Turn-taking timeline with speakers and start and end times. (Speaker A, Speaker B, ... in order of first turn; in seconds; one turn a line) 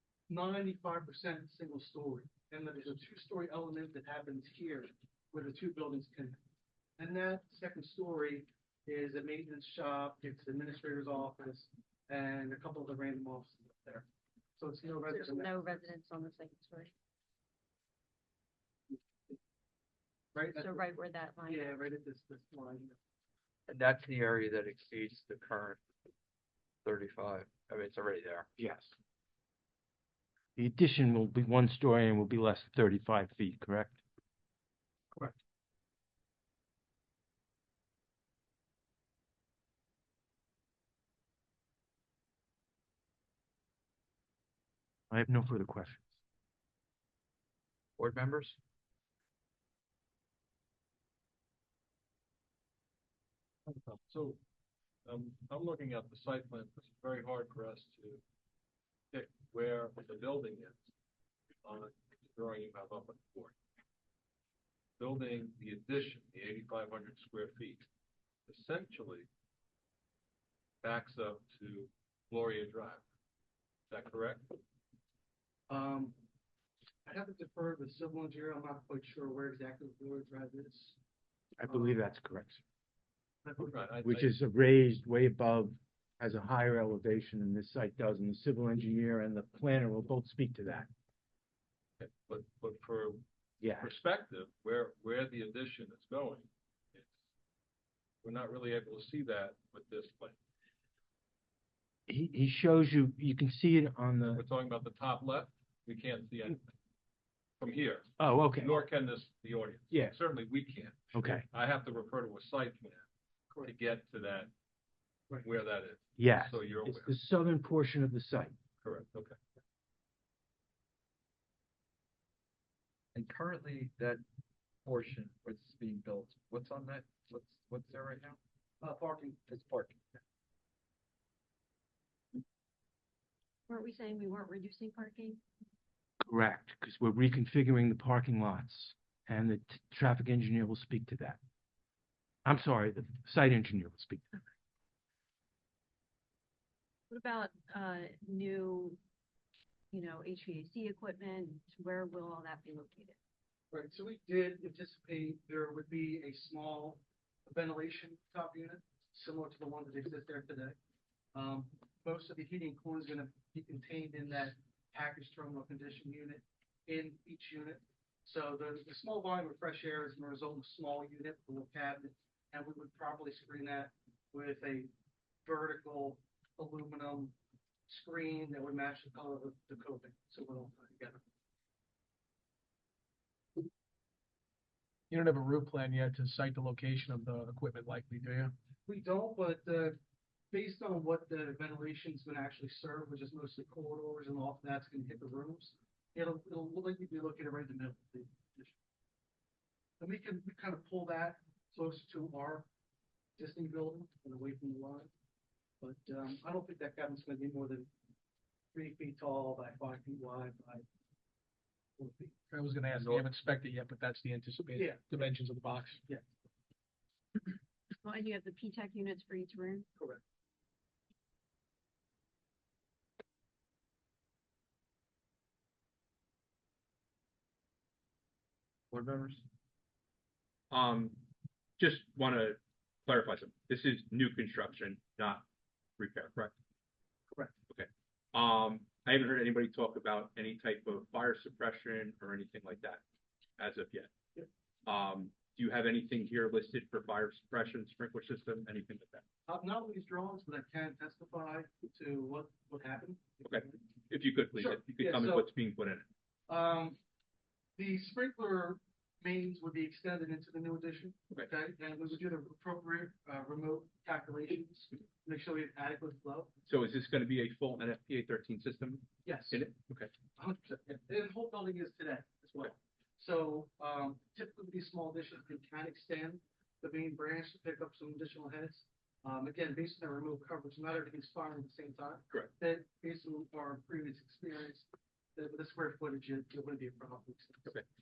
Speaker A: 0.3-6.4
Speaker A: 7.0-15.6
Speaker B: 15.0-16.9
Speaker A: 18.9-19.4
Speaker A: 20.3-20.8
Speaker B: 20.4-21.7
Speaker A: 21.4-23.0
Speaker C: 23.7-25.8
Speaker C: 26.8-28.5
Speaker D: 28.6-28.9
Speaker D: 30.6-34.0
Speaker D: 45.1-46.1
Speaker C: 48.0-48.6
Speaker E: 54.1-54.4
Speaker E: 55.0-58.2
Speaker E: 59.1-60.9
Speaker E: 61.6-63.5
Speaker E: 65.0-67.8
Speaker E: 68.5-69.3
Speaker E: 70.8-73.0
Speaker E: 73.9-74.6
Speaker A: 75.7-76.2
Speaker A: 77.0-81.0
Speaker D: 81.6-82.6
Speaker A: 81.7-82.0
Speaker A: 83.4-83.8
Speaker E: 83.6-84.3
Speaker D: 84.0-90.9
Speaker E: 92.0-93.2
Speaker D: 93.6-93.9
Speaker E: 93.8-97.1
Speaker E: 98.2-100.4
Speaker D: 102.1-104.4
Speaker E: 104.3-106.7
Speaker E: 107.6-113.0
Speaker D: 108.2-108.8
Speaker D: 109.9-110.2
Speaker D: 111.1-111.5
Speaker E: 113.6-114.5
Speaker E: 115.4-117.1
Speaker D: 116.2-118.5
Speaker E: 118.8-119.4
Speaker C: 123.1-124.2
Speaker C: 124.8-128.4
Speaker A: 128.8-129.4
Speaker C: 129.5-130.0
Speaker B: 133.7-135.4
Speaker D: 136.2-141.4
Speaker D: 142.4-144.4
Speaker B: 147.1-149.0
Speaker B: 149.9-153.2
Speaker A: 153.7-160.8
Speaker A: 161.3-174.9
Speaker A: 175.4-177.3
Speaker A: 177.9-181.2
Speaker F: 185.1-188.5
Speaker A: 188.8-190.0
Speaker A: 190.5-198.7
Speaker A: 200.0-202.7
Speaker A: 203.4-205.1
Speaker A: 205.8-207.9
Speaker A: 208.7-210.8
Speaker A: 212.0-212.3
Speaker F: 212.5-216.0
Speaker A: 214.7-215.1
Speaker B: 218.0-219.9
Speaker C: 228.9-229.4
Speaker G: 230.7-231.2
Speaker G: 231.8-235.4
Speaker G: 236.0-236.5
Speaker G: 237.7-243.0
Speaker G: 243.6-244.1
Speaker G: 244.8-249.2
Speaker A: 249.4-253.8
Speaker G: 253.4-256.0
Speaker A: 254.5-255.5
Speaker A: 256.5-257.0
Speaker A: 257.8-266.5
Speaker G: 266.6-270.1
Speaker A: 269.2-269.6
Speaker A: 270.3-287.8